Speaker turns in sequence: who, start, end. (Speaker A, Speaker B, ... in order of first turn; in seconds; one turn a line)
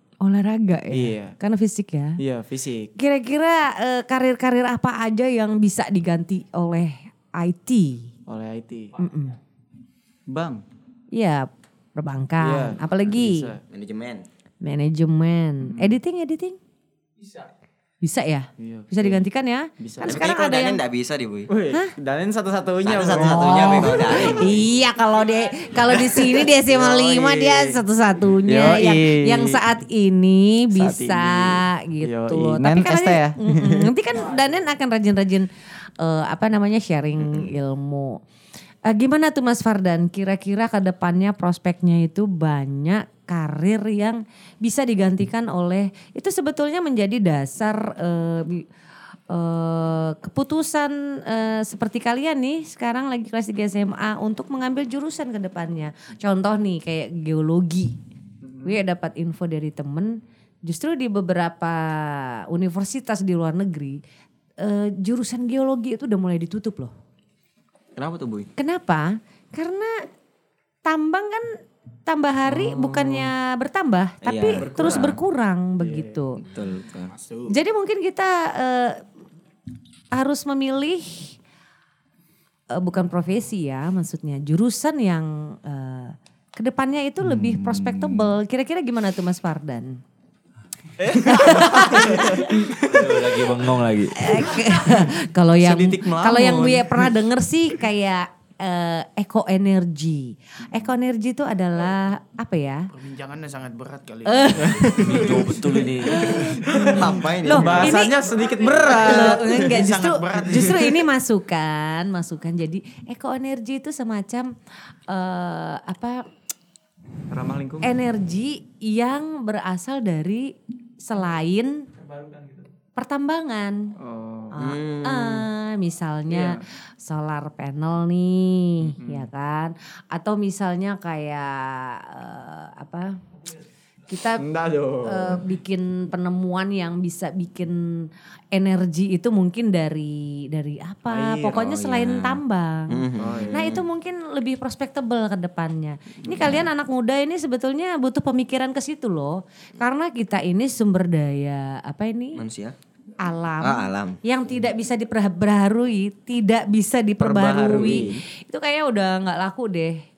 Speaker A: 0.2-2.2
Speaker B: 0.9-1.3
Speaker B: 2.2-2.9
Speaker A: 2.9-8.1
Speaker B: 8.3-9.0
Speaker A: 9.0-9.4
Speaker B: 10.3-10.6
Speaker A: 11.1-13.5
Speaker B: 12.4-13.6
Speaker C: 13.7-14.2
Speaker A: 14.6-16.6
Speaker B: 15.6-16.0
Speaker A: 18.0-20.8
Speaker B: 18.6-19.2
Speaker B: 19.8-20.1
Speaker C: 20.1-21.5
Speaker B: 21.5-24.6
Speaker C: 22.8-24.6
Speaker A: 23.2-35.5
Speaker B: 26.6-27.8
Speaker B: 28.4-29.6
Speaker B: 30.7-33.9
Speaker A: 36.0-38.2
Speaker A: 38.9-48.6
Speaker A: 49.3-58.0
Speaker A: 58.6-64.0
Speaker A: 64.6-66.9
Speaker C: 68.0-68.5
Speaker A: 68.6-69.9
Speaker A: 70.8-71.5
Speaker A: 72.1-76.4
Speaker C: 74.2-75.2
Speaker B: 74.7-75.1
Speaker C: 76.4-77.1
Speaker D: 77.1-77.5
Speaker A: 77.5-79.0
Speaker A: 80.1-81.3
Speaker A: 82.7-90.0
Speaker A: 91.1-92.8
Speaker D: 91.3-91.8
Speaker B: 91.9-92.2
Speaker E: 92.7-94.5
Speaker A: 94.1-102.9
Speaker C: 95.6-96.9
Speaker D: 102.9-105.8
Speaker A: 104.2-105.4
Speaker E: 104.9-106.5
Speaker A: 106.0-114.5
Speaker D: 106.7-107.0
Speaker C: 106.8-107.9
Speaker B: 107.5-109.7
Speaker D: 107.6-111.0
Speaker A: 115.1-116.2
Speaker B: 117.3-117.9
Speaker A: 117.8-121.8
Speaker A: 122.9-123.9
Speaker B: 124.0-124.5
Speaker A: 124.5-133.2
Speaker C: 124.6-125.5
Speaker B: 126.3-126.6
Speaker B: 129.0-129.3
Speaker A: 134.1-134.4
Speaker B: 134.4-135.4
Speaker A: 135.0-152.4
Speaker B: 141.1-141.7
Speaker C: 141.4-143.8
Speaker B: 143.2-143.7
Speaker C: 152.3-152.7
Speaker A: 153.2-160.0
Speaker C: 153.6-154.2
Speaker C: 157.2-158.2
Speaker B: 157.6-158.2